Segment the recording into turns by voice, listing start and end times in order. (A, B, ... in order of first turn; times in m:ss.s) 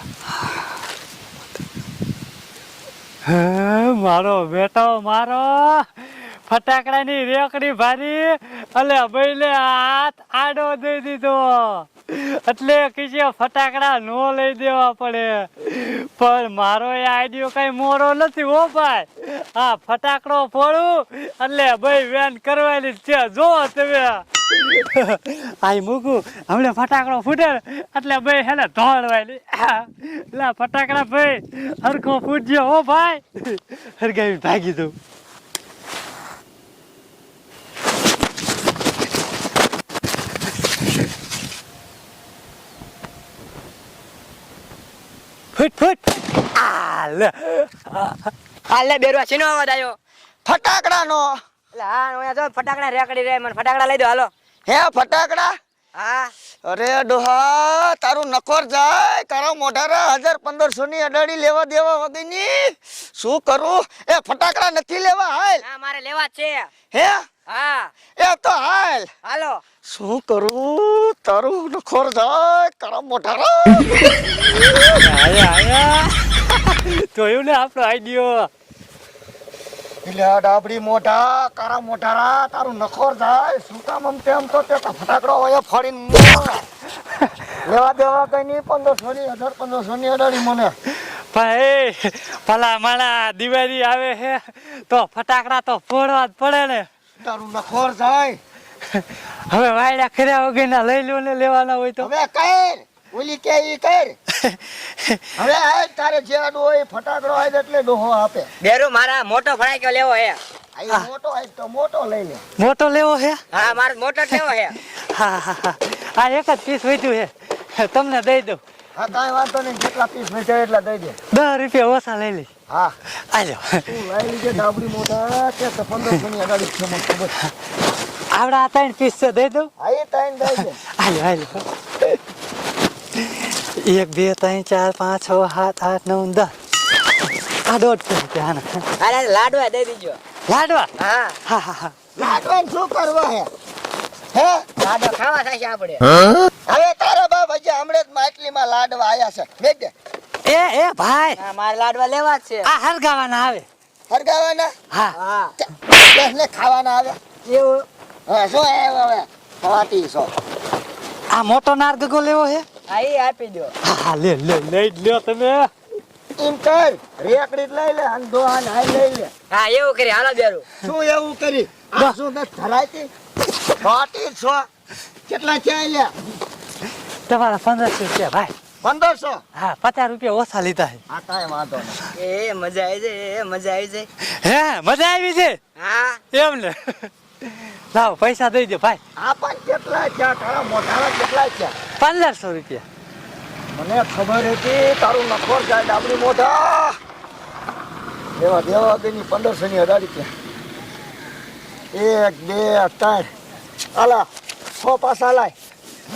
0:03.2-0:34.9 A
0:45.5-0:48.2 A
0:48.7-0:50.0 B
0:50.4-0:51.3 C
0:51.7-0:54.3 B
0:54.6-0:55.5 C
0:56.0-0:56.3 B
0:56.6-1:05.6 C
1:05.6-1:06.7 B
1:06.9-1:07.2 C
1:07.5-1:07.9 B
1:08.2-1:09.1 C
1:09.2-1:09.6 B
1:09.8-1:15.0 C
1:15.0-1:18.5 A
1:20.0-1:26.6 C
1:27.6-1:30.7 C
1:31.3-1:36.9 A
1:37.2-1:38.4 C
1:38.9-1:42.1 A
1:42.0-1:44.2 C
1:44.4-1:45.2 A
1:45.4-1:48.5 C
1:48.6-1:50.4 B
1:50.8-1:52.4 C
1:52.6-1:53.4 A
1:53.5-1:54.8 B
1:55.0-1:58.6 A
1:59.0-2:01.2 C
2:01.3-2:02.5 A
2:02.7-2:02.9 C
2:03.3-2:03.8 A
2:03.8-2:07.3 C
2:08.3-2:09.7 A
2:09.8-2:10.8 C
2:10.5-2:11.6 A
2:13.2-2:16.5 A
2:17.6-2:18.8 A
2:19.0-2:20.2 B
2:20.5-2:20.9 A
2:21.0-2:21.4 B
2:21.4-2:21.9 A
2:22.2-2:23.5 C
2:24.3-2:24.6 C
2:24.8-2:26.1 B
2:26.6-2:29.9 C
2:30.4-2:31.4 A
2:31.4-2:32.7 B
2:32.6-2:33.6 A
2:34.1-2:34.7 C
2:35.1-2:35.5 B
2:35.8-2:37.2 C
2:37.5-2:37.8 B
2:38.3-2:40.3 C
2:41.3-2:42.6 A
2:42.9-2:43.7 B
2:43.8-2:45.7 A
2:46.4-2:49.3 C
2:49.5-2:50.6 B
2:50.8-2:53.1 C
2:53.8-2:54.6 C
2:55.3-2:56.1 C
2:57.3-2:58.5 A
2:58.8-2:59.4 C
2:59.6-3:01.0 A
3:01.1-3:02.0 C
3:02.1-3:04.1 B
3:04.4-3:05.6 A
3:05.8-3:06.2 B
3:06.3-3:07.1 A
3:07.9-3:09.0 A
3:09.2-3:11.7 C
3:12.0-3:12.8 A
3:13.7-3:17.0 C
3:18.4-3:20.3 C
3:21.9-3:23.3 C
3:23.9-3:25.5 C